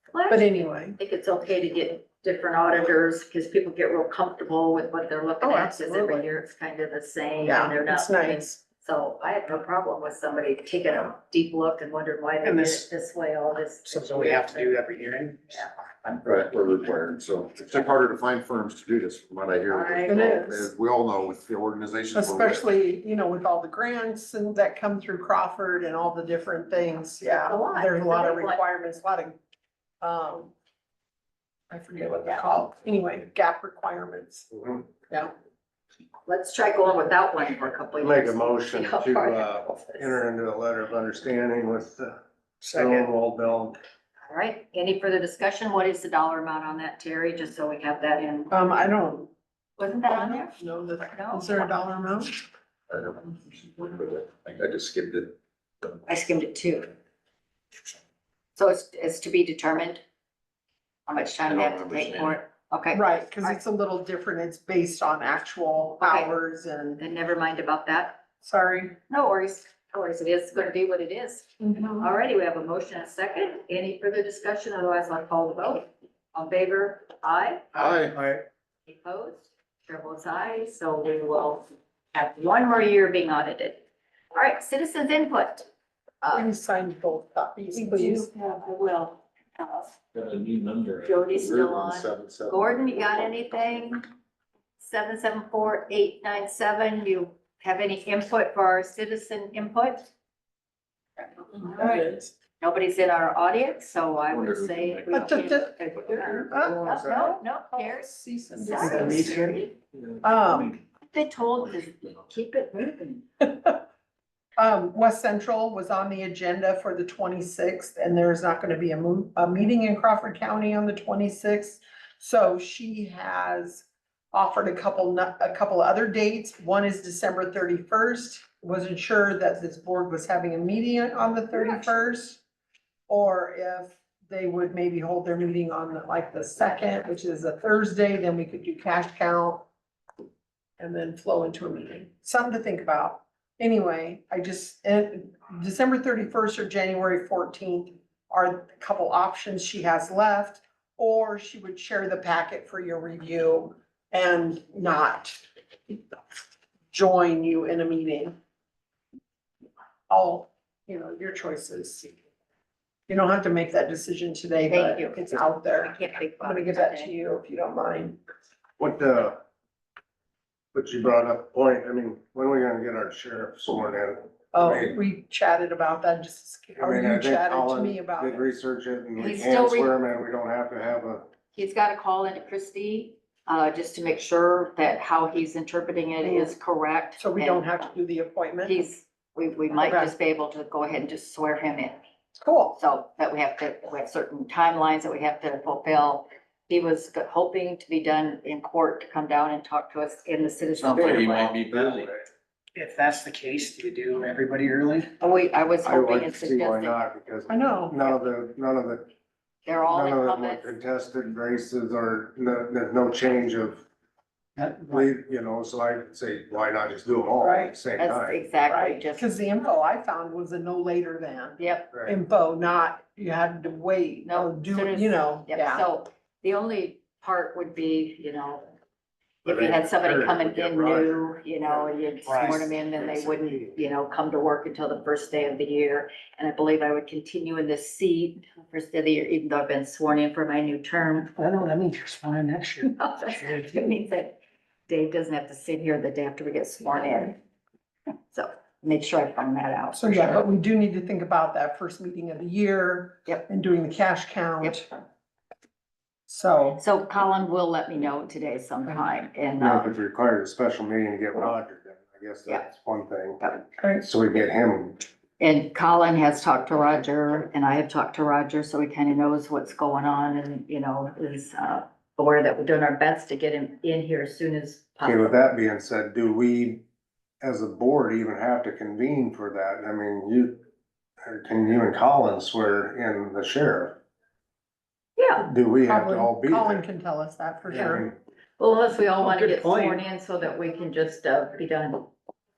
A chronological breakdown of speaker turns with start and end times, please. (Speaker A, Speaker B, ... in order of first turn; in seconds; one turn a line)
Speaker A: 0.1-14.7
Speaker B: 0.3-1.0
Speaker B: 5.4-6.3
Speaker B: 7.4-8.6
Speaker C: 12.4-12.9
Speaker C: 13.8-15.6
Speaker D: 16.2-22.6
Speaker A: 19.7-20.6
Speaker B: 20.1-20.7
Speaker B: 22.1-29.4
Speaker A: 27.2-28.6
Speaker B: 30.0-30.5
Speaker B: 31.7-34.5
Speaker E: 34.5-34.8
Speaker B: 35.1-35.3
Speaker A: 36.3-40.2
Speaker E: 38.0-43.8
Speaker A: 44.3-48.5
Speaker B: 48.5-49.3
Speaker A: 49.8-50.5
Speaker B: 50.1-52.3
Speaker A: 51.1-51.7
Speaker D: 52.9-55.3
Speaker A: 56.0-56.9
Speaker A: 58.5-60.0
Speaker A: 61.1-63.6
Speaker F: 61.5-62.4
Speaker B: 62.9-67.0
Speaker A: 66.0-66.3
Speaker A: 67.0-68.2
Speaker B: 68.4-69.0
Speaker A: 69.1-77.7
Speaker B: 71.6-72.1
Speaker D: 77.8-78.1
Speaker E: 78.0-78.4
Speaker A: 78.9-83.8
Speaker A: 84.3-85.7
Speaker A: 86.2-86.5
Speaker B: 86.3-88.3
Speaker A: 87.7-90.0
Speaker F: 90.2-91.1
Speaker A: 91.0-94.0
Speaker A: 94.8-100.1
Speaker A: 101.5-102.0
Speaker B: 101.7-102.3
Speaker A: 102.6-109.7
Speaker F: 104.3-105.3
Speaker B: 105.1-105.7
Speaker B: 106.3-106.9
Speaker E: 106.6-107.3
Speaker B: 107.7-109.6
Speaker C: 108.7-109.7
Speaker B: 110.2-110.8
Speaker A: 111.1-113.2
Speaker B: 113.4-113.8
Speaker B: 114.6-132.4
Speaker B: 133.1-139.7
Speaker B: 140.8-155.4
Speaker B: 156.9-158.3
Speaker B: 160.1-162.1
Speaker B: 163.1-168.2
Speaker A: 164.7-165.2
Speaker A: 165.7-167.1
Speaker E: 168.8-169.4
Speaker E: 170.7-174.9
Speaker B: 174.5-178.5
Speaker E: 176.8-181.3
Speaker A: 179.2-179.9
Speaker A: 181.5-187.6
Speaker B: 186.2-186.6
Speaker B: 187.2-188.8
Speaker A: 188.6-192.0
Speaker B: 189.8-190.1
Speaker B: 192.4-192.8
Speaker A: 192.8-201.6
Speaker F: 200.8-202.2
Speaker E: 201.8-202.2
Speaker C: 202.8-205.1
Speaker A: 205.2-207.0
Speaker E: 205.8-209.1
Speaker B: 207.5-207.9
Speaker A: 209.7-210.7
Speaker E: 209.9-213.8
Speaker C: 214.6-215.0
Speaker E: 214.8-218.4
Speaker B: 217.4-217.7
Speaker A: 217.9-219.3
Speaker B: 218.7-225.9
Speaker A: 221.6-221.9
Speaker A: 224.2-228.7
Speaker E: 229.4-233.8
Speaker A: 229.4-241.3
Speaker C: 232.2-232.7
Speaker C: 241.3-243.8
Speaker A: 242.9-244.4
Speaker A: 244.9-247.4
Speaker A: 248.3-250.4
Speaker B: 249.9-254.8
Speaker B: 256.3-256.8
Speaker A: 256.8-259.9
Speaker E: 259.6-263.4
Speaker B: 263.8-264.1
Speaker E: 264.0-265.1
Speaker A: 265.4-275.4
Speaker E: 275.0-276.8
Speaker E: 277.4-280.6
Speaker E: 281.2-284.0
Speaker A: 285.2-285.5
Speaker E: 285.4-286.8
Speaker B: 285.9-288.1
Speaker E: 287.7-288.1
Speaker A: 288.6-292.1
Speaker C: 289.2-290.0